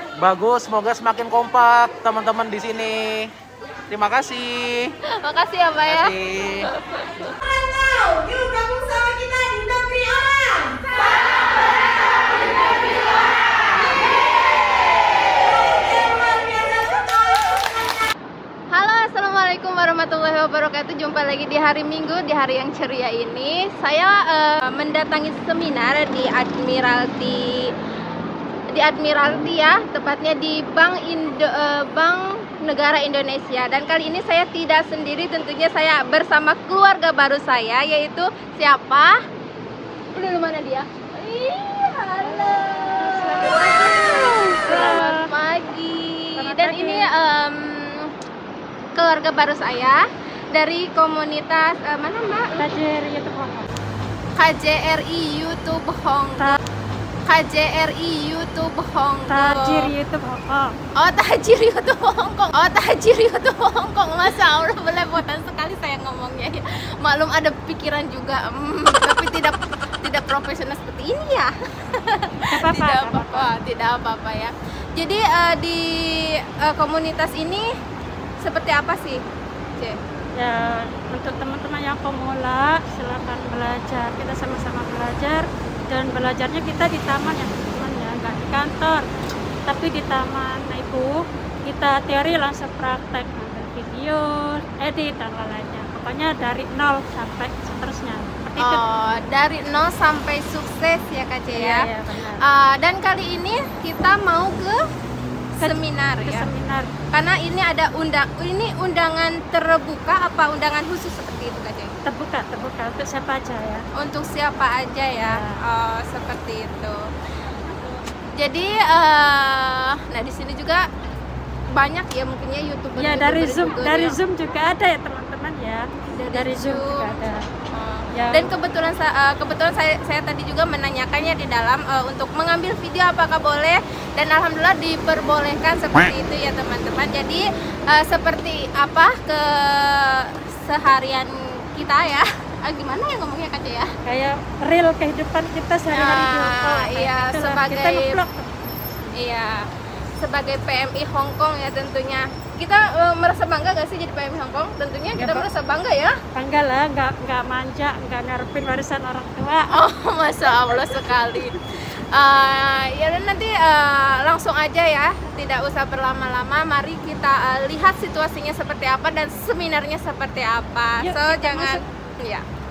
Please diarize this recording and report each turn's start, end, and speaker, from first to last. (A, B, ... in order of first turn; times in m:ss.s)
0:00.2-0:03.3 A
0:03.9-0:04.9 A
0:05.2-0:06.1 B
0:05.9-0:06.6 A
0:06.8-0:07.3 B
0:07.4-0:11.0 C
0:12.5-0:13.9 C
0:15.4-0:17.8 C
0:18.7-0:27.4 B
0:28.7-0:39.1 B
0:40.1-0:48.1 B
0:43.0-0:45.3 D
0:46.4-0:47.1 D
0:48.9-0:50.0 B
0:50.5-0:52.5 B
0:52.5-0:53.7 D
0:54.4-0:56.5 B
0:57.3-0:59.8 B
0:59.3-1:00.7 D
1:01.0-1:15.9 B
1:12.5-1:13.5 D
1:16.6-1:17.6 B
1:18.4-1:19.2 B
1:20.3-1:29.0 D
1:29.7-1:38.8 D
1:38.6-1:41.9 B
1:41.5-1:42.4 D
1:42.4-1:44.8 B
1:45.6-1:46.5 B
1:45.6-1:46.9 D
1:47.1-1:51.9 B
1:52.0-1:53.8 D
1:54.0-1:57.0 B
1:55.2-1:55.5 D
1:58.4-2:00.8 B
2:01.7-2:04.2 B
2:03.0-2:07.4 D
2:06.1-2:07.0 B
2:07.7-2:23.9 B
2:08.1-2:08.5 D
2:24.0-2:28.5 D
2:25.9-2:28.1 B
2:29.2-2:29.6 B
2:30.2-2:36.1 B
2:35.2-2:35.5 D
2:36.3-2:39.7 D
2:39.7-2:41.6 B
2:40.5-2:41.4 D
2:42.1-2:52.4 B
2:51.0-2:51.8 D